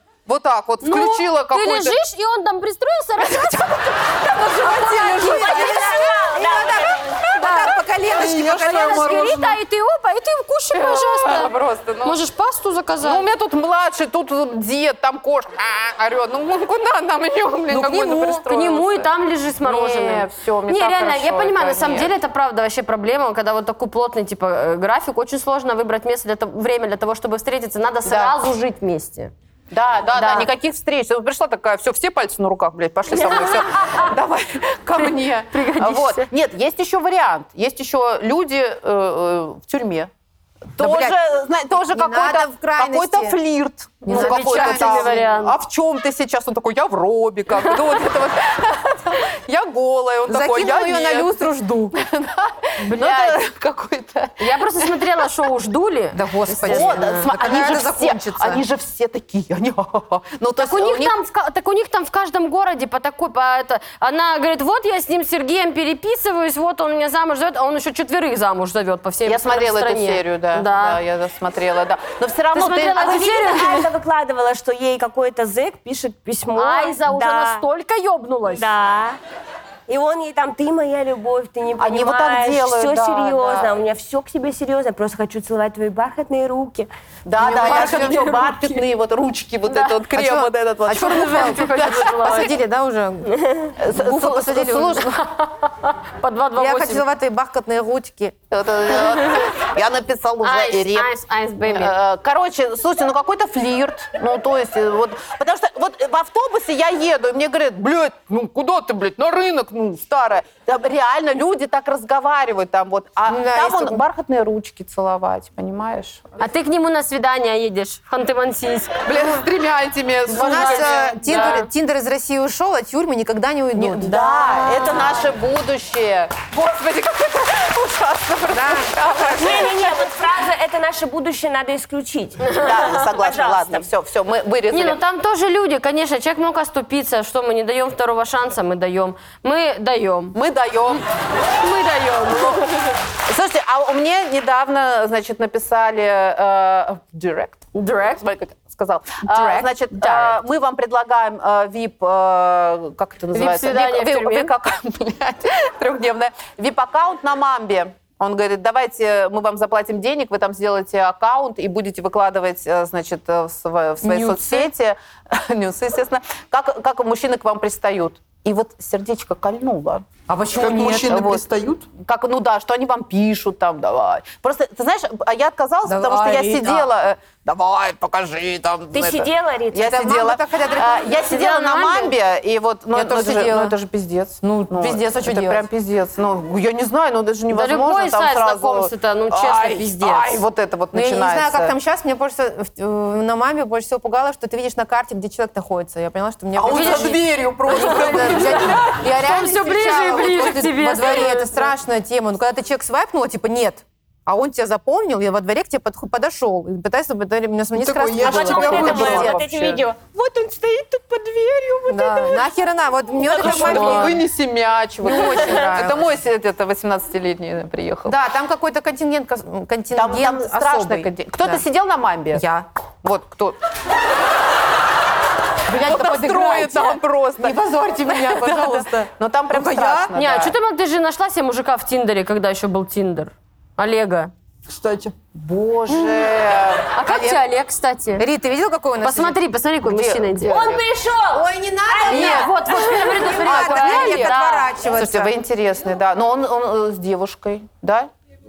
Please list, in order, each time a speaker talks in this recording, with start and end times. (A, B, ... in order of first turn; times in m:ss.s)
0:00.2-0:02.0 A
0:00.8-0:06.4 B
0:03.2-0:05.8 A
0:04.6-0:09.3 C
0:05.5-0:07.3 D
0:07.4-0:07.7 B
0:08.1-0:09.6 E
0:08.5-0:13.2 B
0:10.7-0:12.2 A
0:13.0-0:22.1 A
0:17.7-0:29.3 B
0:28.0-0:28.5 A
0:29.7-0:40.1 A
0:30.1-0:30.5 B
0:33.2-0:34.1 B
0:35.0-0:36.3 B
0:40.8-0:51.4 A
0:40.8-0:41.2 C
0:41.7-0:43.4 C
0:44.0-0:45.2 C
0:44.1-0:45.6 B
0:50.3-0:52.0 C
0:51.9-0:54.8 A
0:52.8-0:53.4 B
0:54.4-0:57.3 B
0:56.1-0:58.6 C
0:56.6-1:01.1 A
1:00.6-1:11.0 B
1:09.2-1:13.6 A
1:12.5-1:13.9 B
1:13.0-1:17.6 D
1:16.5-1:18.7 B
1:18.5-1:19.2 D
1:19.9-1:26.9 D
1:21.8-1:23.7 A
1:27.2-1:32.5 A
1:27.4-1:28.5 C
1:27.6-1:28.7 B
1:30.1-1:35.1 C
1:31.0-1:32.5 B
1:33.8-1:35.2 A
1:35.4-1:37.0 B
1:36.6-1:38.3 C
1:38.5-1:41.1 A
1:40.4-1:41.9 B
1:41.6-1:56.2 A
1:53.3-1:54.0 C
1:56.4-1:59.0 B
1:59.0-2:01.7 A
2:00.3-2:04.2 C
2:01.3-2:01.6 B
2:03.8-2:09.9 A
2:04.2-2:04.9 B
2:08.5-2:08.9 C
2:09.4-2:13.8 D
2:12.5-2:15.0 A
2:14.7-2:20.4 B
2:20.3-2:21.0 A
2:21.6-2:22.9 B
2:22.3-2:22.6 A
2:23.3-2:50.1 A
2:27.7-2:28.2 B
2:29.3-2:30.3 B
2:33.3-2:34.5 B
2:44.0-2:44.6 B
2:50.3-2:51.2 C
2:50.6-2:51.9 E
2:50.9-2:51.4 A
2:52.0-3:11.7 A
2:55.8-2:56.9 C
2:58.9-3:00.1 D
2:59.8-3:02.1 C
3:02.9-3:03.8 C
3:04.4-3:05.7 C
3:07.5-3:10.4 B
3:10.9-3:29.4 C
3:16.6-3:19.0 A
3:16.7-3:17.2 B
3:17.7-3:21.7 B
3:27.7-3:29.4 E
3:28.2-3:32.4 D
3:28.3-3:29.9 A
3:31.9-3:34.2 C
3:33.2-3:33.8 D
3:33.3-3:38.2 A
3:33.4-3:34.1 B
3:35.0-3:36.1 C
3:38.0-3:41.6 C
3:39.9-3:42.4 A
3:42.3-3:42.7 C
3:43.0-3:43.6 A
3:45.7-3:50.1 C
3:45.8-3:50.6 A
3:50.1-3:54.3 B
3:54.7-3:55.1 E
3:55.3-3:56.9 A
3:56.9-3:58.2 B
3:57.0-3:57.4 C
3:58.2-3:59.4 C
3:59.0-4:00.6 B
3:59.8-4:00.8 A
4:00.4-4:03.2 D
4:01.3-4:05.3 C
4:02.1-4:04.7 B
4:03.4-4:08.1 A